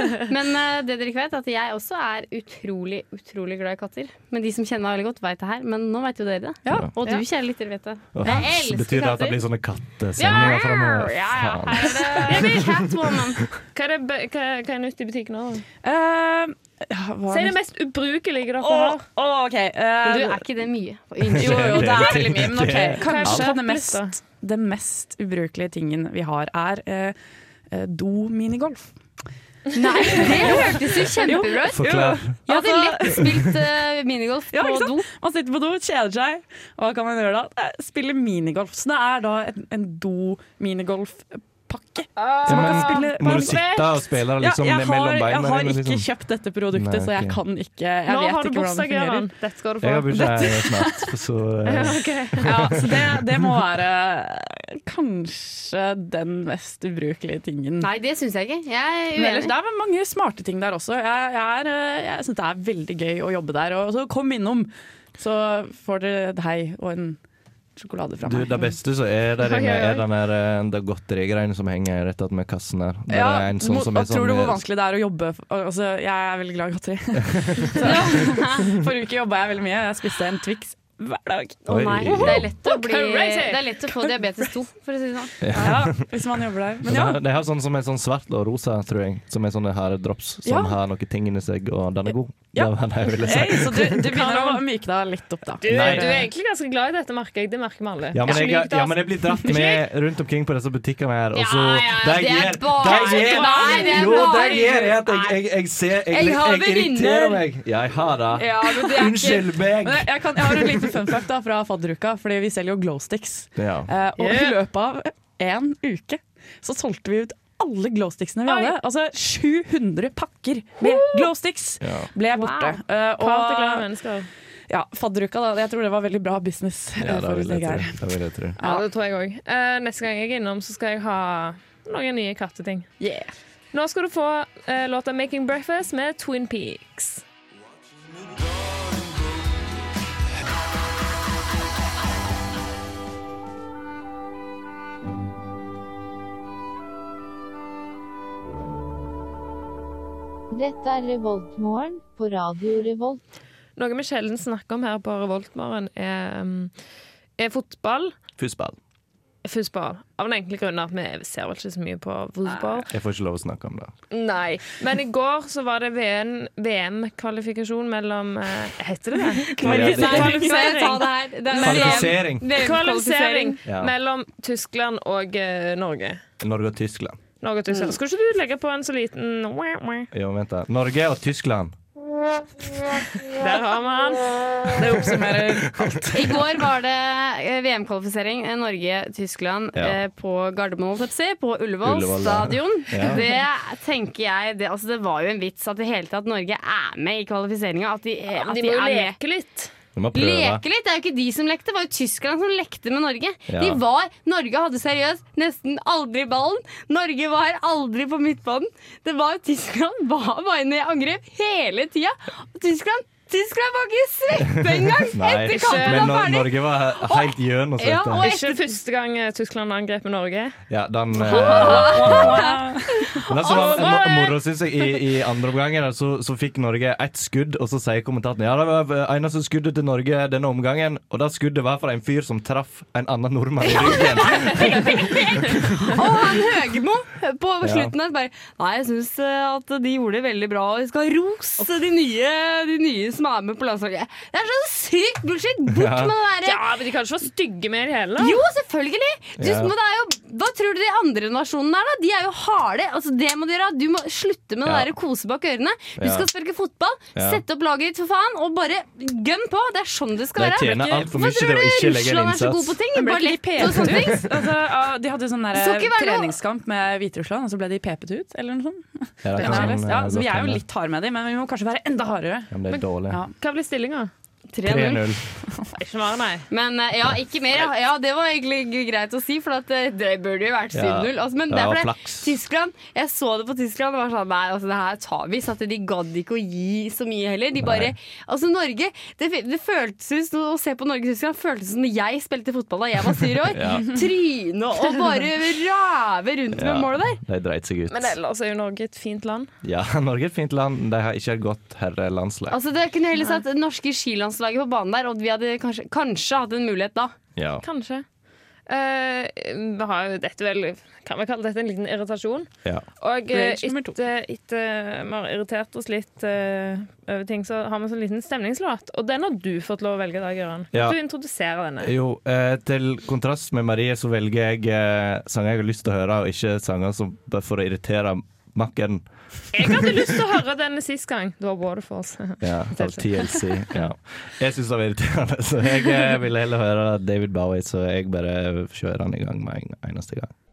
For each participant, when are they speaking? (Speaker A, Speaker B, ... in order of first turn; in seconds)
Speaker A: 0.3-9.4, 10.2-13.4, 20.0-22.1, 29.7-35.0, 57.8-59.5, 77.8-78.8, 81.7-85.5, 101.3-105.4, 106.1-107.4, 108.3-109.5, 169.6-173.6, 177.7-177.9, 186.1-199.2, 200.1-218.6, 221.5-222.6, 223.5-224.0, 233.6-246.7, 248.2-264.4, 265.5-266.3, 274.5-275.1, 276.5-297.2, 302.5-307.1
Speaker B: 8.1-11.9, 21.3-23.4, 31.7-32.4, 33.1-33.4, 42.5-46.1, 46.7-47.4, 49.8-53.2, 68.2-74.6, 77.2-77.7, 81.7-82.5, 85.4-86.2, 86.8-94.0, 95.6-96.3, 98.1-110.9, 113.5-113.9, 121.8-122.1, 127.0-128.6, 158.4-158.8, 162.9-163.9, 169.6-170.5, 171.6-172.5, 173.7-173.9, 176.4-177.2, 180.1-181.7, 191.8-193.2, 199.9-200.6, 203.5-203.8, 214.7-218.3, 220.7-222.4, 223.1-236.0, 237.6-237.9, 245.7-246.2, 249.4-249.7, 254.6-254.9, 256.0-256.3, 257.1-257.4, 260.3-262.8, 269.2-270.6, 272.5-273.2, 274.6-275.2, 280.7-282.3, 287.6-287.9, 293.4-294.0, 296.5-298.2, 299.6-302.6, 307.3-307.6, 320.7-321.0, 321.8-330.0, 332.4-340.3
Speaker C: 12.2-12.6, 13.7-15.6, 17.3-19.0, 23.0-24.1, 42.2-43.9, 48.1-50.3, 51.6-52.7, 69.4-70.1, 82.2-83.8, 94.1-94.6, 95.6-99.9, 102.8-104.7, 114.2-114.6, 118.5-118.7, 120.8-121.3, 123.2-124.3, 128.6-132.9, 133.7-137.2, 153.8-156.7, 157.4-158.1, 159.4-162.9, 164.1-176.2, 177.4-180.1, 183.2-184.7, 198.3-199.7, 215.5-216.3, 218.2-220.6, 221.1-222.4, 223.1-224.3, 234.2-235.8, 246.4-248.4, 273.4-274.1, 275.7-276.5, 297.9-299.5, 303.1-303.4, 307.6-308.0, 308.7-312.5, 313.0-321.9, 329.5-333.5
Speaker D: 15.8-17.6, 18.6-20.4, 21.3-27.1, 27.7-28.9, 30.1-33.4, 34.5-43.7, 44.4-49.3, 50.1-51.1, 52.4-57.9, 59.1-67.2, 67.8-68.7, 73.1-81.7, 85.5-87.2, 90.4-90.8, 92.5-96.3, 109.8-123.9, 124.7-128.0, 128.6-128.8, 133.0-133.3, 169.4-170.7, 184.7-186.4, 221.4-223.2, 262.9-272.5, 313.3-314.0
Speaker E: 150.5-153.2